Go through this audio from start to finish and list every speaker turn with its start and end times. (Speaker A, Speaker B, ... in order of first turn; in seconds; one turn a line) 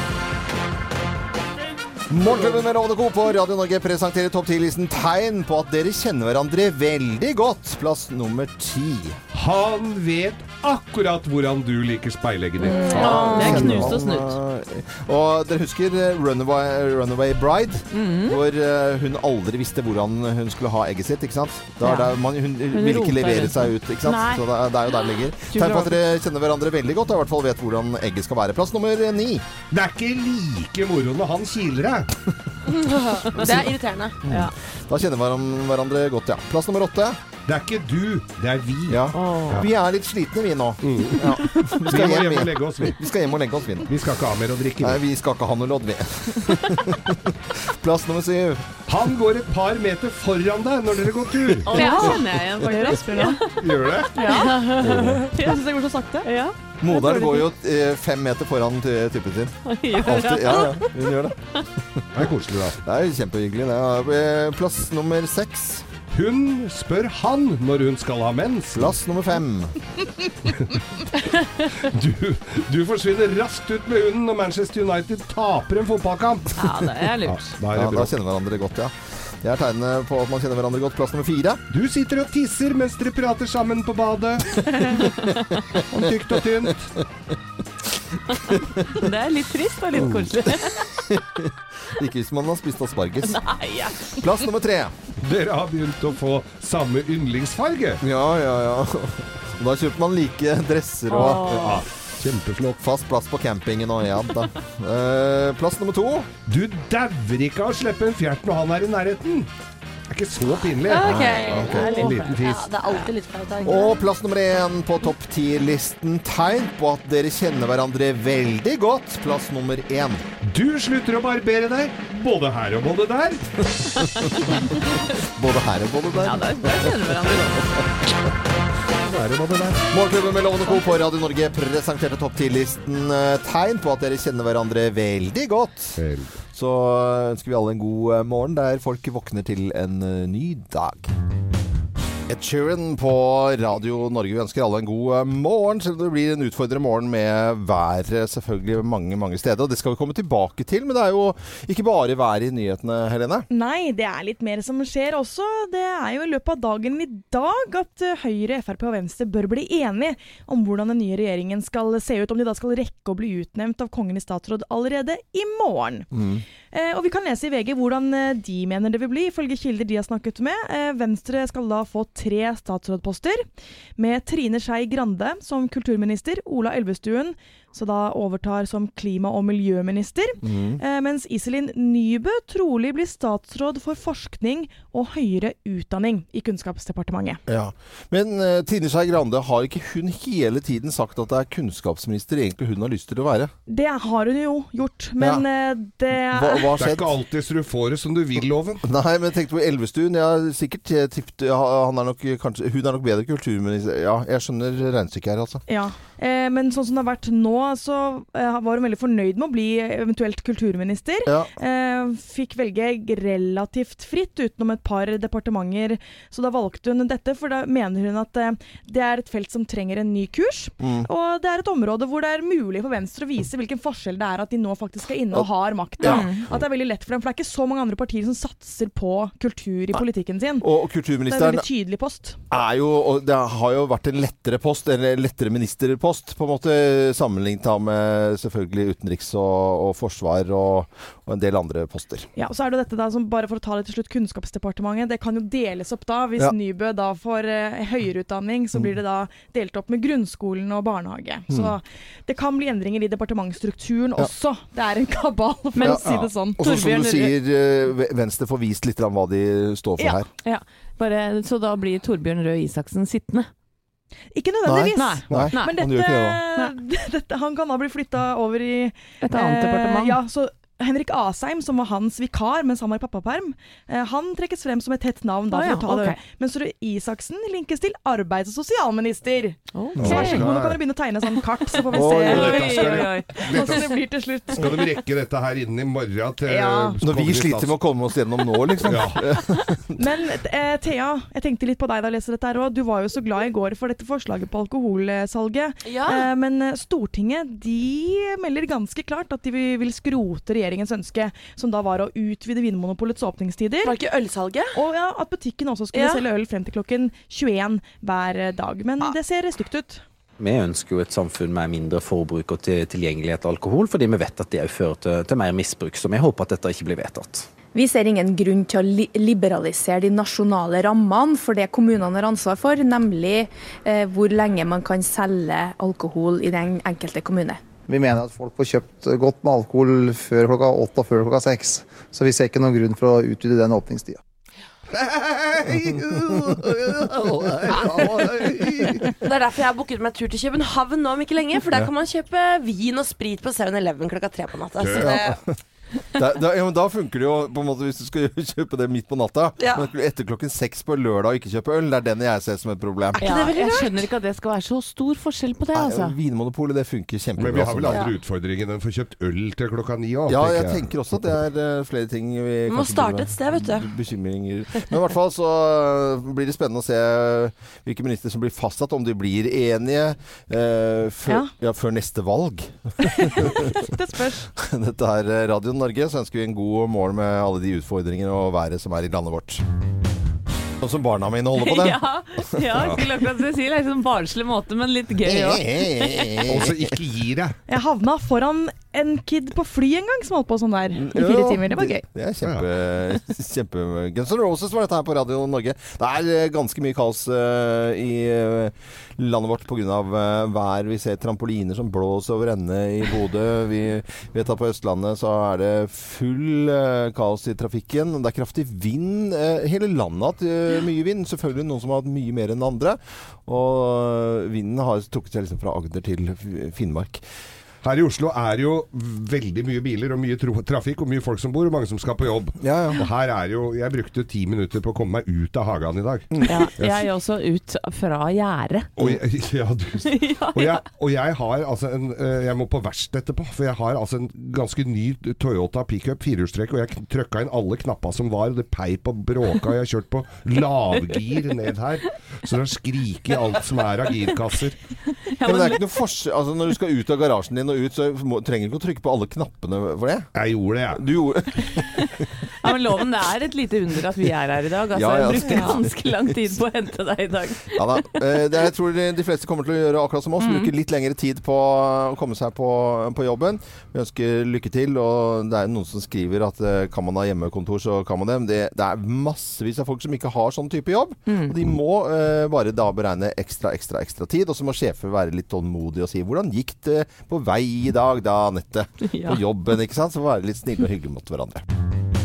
Speaker A: 2.1-9.2
Speaker B: 9.3-13.8
Speaker C: 12.6-14.4
Speaker D: 12.8-13.6
Speaker A: 12.9-29.5
Speaker C: 17.9-18.4
Speaker C: 21.8-22.2
Speaker C: 22.7-24.4
Speaker C: 25.4-26.0
Speaker B: 29.7-32.1
Speaker D: 32.7-34.2
Speaker A: 34.2-37.2
Speaker B: 37.5-39.7
Speaker A: 38.9-43.9
Speaker C: 39.1-39.6
Speaker B: 40.8-43.0
Speaker B: 43.9-45.0
Speaker A: 44.8-48.8
Speaker B: 48.9-52.0
Speaker A: 51.5-52.5
Speaker C: 51.6-53.6
Speaker E: 51.7-53.5
Speaker B: 53.6-55.2
Speaker E: 54.1-56.3
Speaker C: 54.1-55.6
Speaker C: 56.2-56.5
Speaker A: 56.8-65.9
Speaker E: 56.8-57.4
Speaker C: 59.6-61.0
Speaker B: 62.1-62.8
Speaker B: 66.1-68.9
Speaker A: 68.8-69.8
Speaker B: 70.5-78.1
Speaker C: 76.6-77.5
Speaker A: 77.7-81.6
Speaker B: 81.7-85.1
Speaker C: 84.8-85.6
Speaker B: 85.7-86.9
Speaker A: 86.0-87.0
Speaker A: 88.1-89.1
Speaker C: 88.5-91.0
Speaker A: 90.7-93.4
Speaker C: 93.2-94.2
Speaker A: 94.2-95.0
Speaker B: 95.2-98.0
Speaker A: 98.0-101.9
Speaker C: 101.1-101.8
Speaker B: 101.2-102.8
Speaker A: 102.8-106.3
Speaker B: 106.5-109.5
Speaker B: 110.1-112.7
Speaker D: 110.8-114.0
Speaker A: 111.0-111.9
Speaker C: 111.7-112.3
Speaker A: 113.6-120.2
Speaker B: 120.4-124.2
Speaker A: 125.1-127.8
Speaker C: 126.2-127.7
Speaker B: 129.0-129.9
Speaker A: 129.9-136.0
Speaker B: 136.0-136.3
Speaker A: 136.5-141.1
Speaker A: 142.3-153.5
Speaker E: 153.5-166.1
Speaker A: 166.1-166.4
Speaker E: 166.7-187.4
Speaker A: 180.4-180.8
Speaker A: 187.5-193.5
Speaker E: 193.7-196.7
Speaker A: 195.2-195.5
Speaker A: 196.1-197.1
Speaker B: 196.8-198.8
Speaker A: 198.8-205.6
Speaker E: 205.7-230.7
Speaker A: 211.2-211.5
Speaker A: 220.8-221.1
Speaker A: 226.0-226.6
Speaker C: 226.0-226.4
Speaker A: 230.6-231.7
Speaker E: 231.2-232.4
Speaker A: 232.5-242.3
Speaker E: 242.4-256.6
Speaker A: 251.5-251.8
Speaker C: 255.8-257.3
Speaker A: 255.8-260.3
Speaker C: 260.4-263.5
Speaker E: 264.3-284.9
Speaker A: 264.6-266.4
Speaker C: 265.0-265.8
Speaker C: 269.2-270.2
Speaker C: 275.5-276.2
Speaker C: 279.7-280.5
Speaker B: 280.0-280.8
Speaker A: 280.0-280.4
Speaker A: 281.9-283.0
Speaker C: 282.0-283.7
Speaker B: 282.2-284.0
Speaker B: 284.5-287.8
Speaker E: 286.4-287.0
Speaker A: 287.0-290.1
Speaker B: 288.8-289.2
Speaker E: 290.0-304.0
Speaker D: 295.8-296.3
Speaker D: 303.8-304.8
Speaker E: 304.8-310.0
Speaker D: 305.9-306.2
Speaker F: 310.4-317.5
Speaker G: 317.7-327.6
Speaker H: 327.9-334.2
Speaker B: 334.9-339.1
Speaker A: 335.6-339.1
Speaker D: 339.2-345.4
Speaker B: 344.8-345.2
Speaker A: 344.9-345.4
Speaker A: 346.1-353.2
Speaker D: 349.6-349.9
Speaker D: 353.2-354.0
Speaker C: 353.2-356.1
Speaker A: 355.7-358.1
Speaker B: 357.4-361.3
Speaker A: 360.3-373.9
Speaker D: 362.7-363.9
Speaker E: 373.1-374.5
Speaker A: 374.5-379.6
Speaker A: 380.8-382.0
Speaker C: 381.6-386.4
Speaker B: 382.8-383.0
Speaker A: 385.2-387.0
Speaker B: 386.5-387.6
Speaker E: 387.7-392.0
Speaker A: 390.9-417.2
Speaker B: 417.8-427.1
Speaker A: 422.6-423.0
Speaker A: 426.4-426.7
Speaker C: 426.5-428.9
Speaker B: 429.0-444.8
Speaker C: 430.1-430.8
Speaker C: 445.3-445.8
Speaker A: 445.4-450.3
Speaker B: 450.4-451.0
Speaker A: 450.9-452.3
Speaker C: 452.6-458.4
Speaker A: 454.9-456.6
Speaker E: 455.5-455.7
Speaker A: 457.7-481.6
Speaker C: 460.4-460.7
Speaker C: 471.3-471.6
Speaker C: 479.1-479.4